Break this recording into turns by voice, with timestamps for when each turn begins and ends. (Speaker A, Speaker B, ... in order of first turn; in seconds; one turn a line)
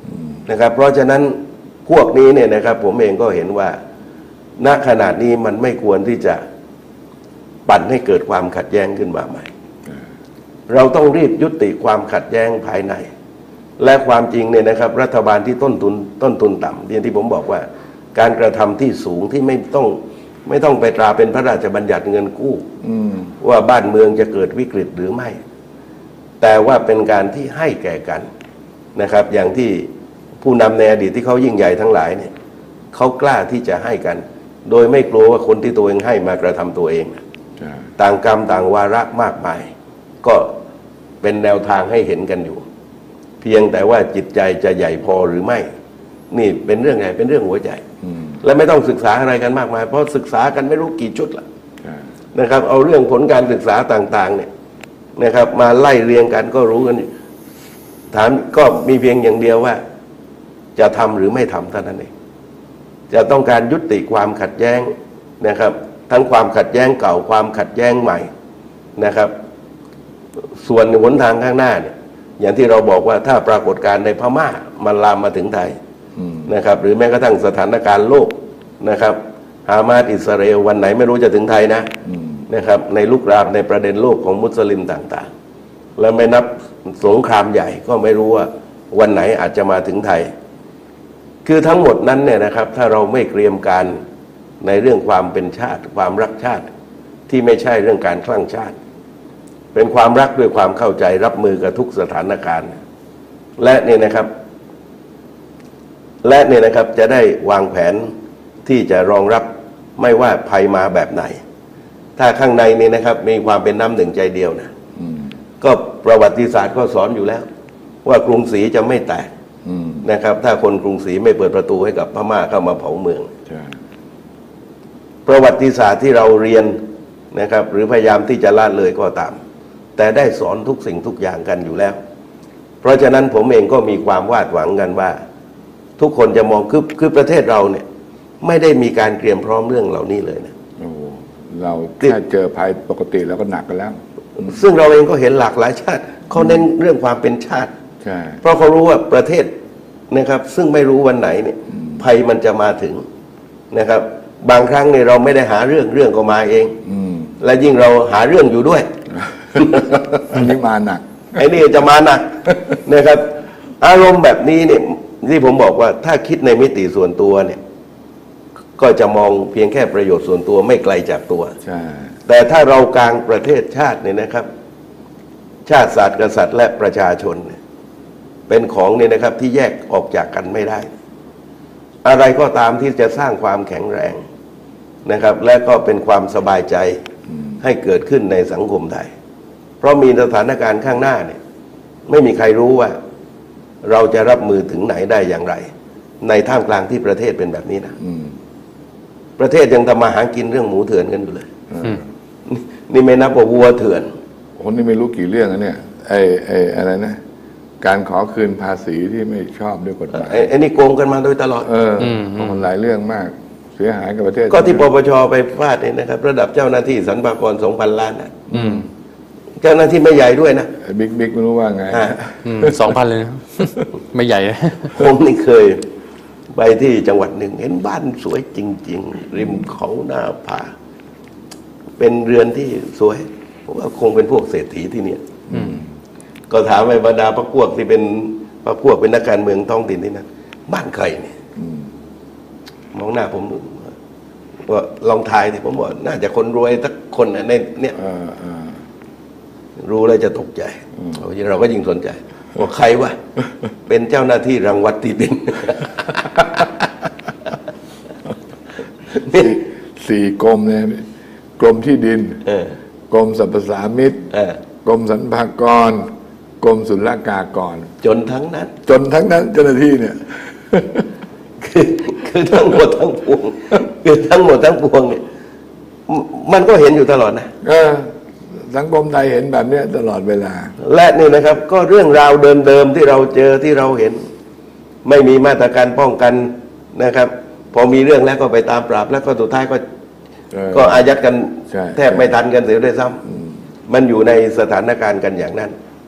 Speaker A: 0.5-3.8
Speaker A: 4.6-6.4
Speaker A: 7.7-9.5
Speaker A: 10.7-13.1
Speaker A: 13.8-22.7
Speaker B: 22.8-23.3
Speaker A: 23.4-25.4
Speaker A: 26.4-28.3
Speaker A: 29.0-29.9
Speaker A: 30.4-32.3
Speaker A: 32.9-37.2
Speaker B: 37.6-37.8
Speaker A: 38.0-39.7
Speaker A: 40.2-40.5
Speaker A: 41.2-42.6
Speaker A: 43.4-45.7
Speaker A: 46.3-47.8
Speaker B: 48.0-48.4
Speaker A: 48.4-51.4
Speaker A: 52.4-54.5
Speaker A: 55.2-57.1
Speaker A: 58.1-59.8
Speaker A: 60.8-62.1
Speaker A: 63.1-68.3
Speaker A: 69.0-69.3
Speaker A: 70.6-75.8
Speaker B: 76.2-76.5
Speaker A: 76.5-81.9
Speaker B: 82.0-82.4
Speaker A: 82.5-85.3
Speaker A: 86.0-90.3
Speaker A: 91.5-94.0
Speaker A: 94.6-96.7
Speaker A: 97.3-98.8
Speaker A: 99.7-102.8
Speaker A: 103.6-104.3
Speaker A: 106.2-108.1
Speaker A: 108.7-111.4
Speaker A: 112.2-114.7
Speaker B: 115.0-115.3
Speaker A: 115.6-117.5
Speaker A: 118.0-119.3
Speaker B: 119.7-120.0
Speaker A: 120.0-123.3
Speaker B: 123.5-123.7
Speaker A: 125.3-126.8
Speaker A: 127.3-129.4
Speaker A: 130.0-132.0
Speaker A: 132.8-135.2
Speaker A: 136.0-137.8
Speaker A: 138.4-140.5
Speaker B: 140.8-144.5
Speaker A: 144.4-147.7
Speaker B: 148.0-148.4
Speaker A: 148.4-149.5
Speaker A: 150.1-153.0
Speaker A: 153.7-156.8
Speaker B: 156.8-157.3
Speaker A: 157.4-158.9
Speaker B: 159.5-161.4
Speaker A: 159.6-160.0
Speaker A: 161.3-163.3
Speaker A: 163.8-167.6
Speaker A: 168.8-171.6
Speaker B: 171.6-172.1
Speaker A: 172.3-174.5
Speaker A: 175.7-177.6
Speaker A: 178.5-180.9
Speaker A: 182.0-184.2
Speaker A: 185.1-187.0
Speaker A: 187.6-189.1
Speaker A: 189.8-191.4
Speaker A: 192.1-193.0
Speaker A: 193.8-195.7
Speaker A: 196.2-198.0
Speaker B: 198.0-198.3
Speaker A: 199.4-201.5
Speaker B: 201.7-202.0
Speaker A: 202.5-204.1
Speaker B: 204.6-207.2
Speaker B: 207.8-210.5
Speaker A: 210.1-211.7
Speaker B: 211.6-214.9
Speaker C: 212.1-212.5
Speaker A: 214.5-218.4
Speaker B: 218.5-218.9
Speaker C: 218.5-218.8
Speaker A: 219.6-220.7
Speaker B: 220.8-222.8
Speaker A: 221.9-222.2
Speaker C: 222.4-224.9
Speaker A: 224.9-225.8
Speaker A: 226.5-230.7
Speaker A: 232.0-235.2
Speaker B: 235.5-235.9
Speaker A: 236.5-241.3
Speaker B: 241.6-241.9
Speaker A: 242.9-243.9
Speaker A: 244.7-248.0
Speaker B: 248.0-248.8
Speaker A: 249.8-253.2
Speaker A: 253.9-256.7
Speaker A: 259.1-259.6
Speaker B: 259.3-261.1
Speaker B: 261.6-262.4
Speaker A: 262.5-262.7
Speaker B: 263.1-264.3
Speaker A: 264.3-264.6
Speaker B: 264.8-266.1
Speaker B: 266.6-267.9
Speaker A: 268.0-268.7
Speaker B: 268.9-271.1
Speaker A: 271.6-275.2
Speaker A: 276.1-277.5
Speaker B: 277.6-280.8
Speaker A: 280.8-284.2
Speaker A: 285.1-289.8
Speaker B: 290.5-291.1
Speaker A: 290.7-293.2
Speaker B: 291.7-292.3
Speaker B: 293.3-293.5
Speaker A: 293.9-295.7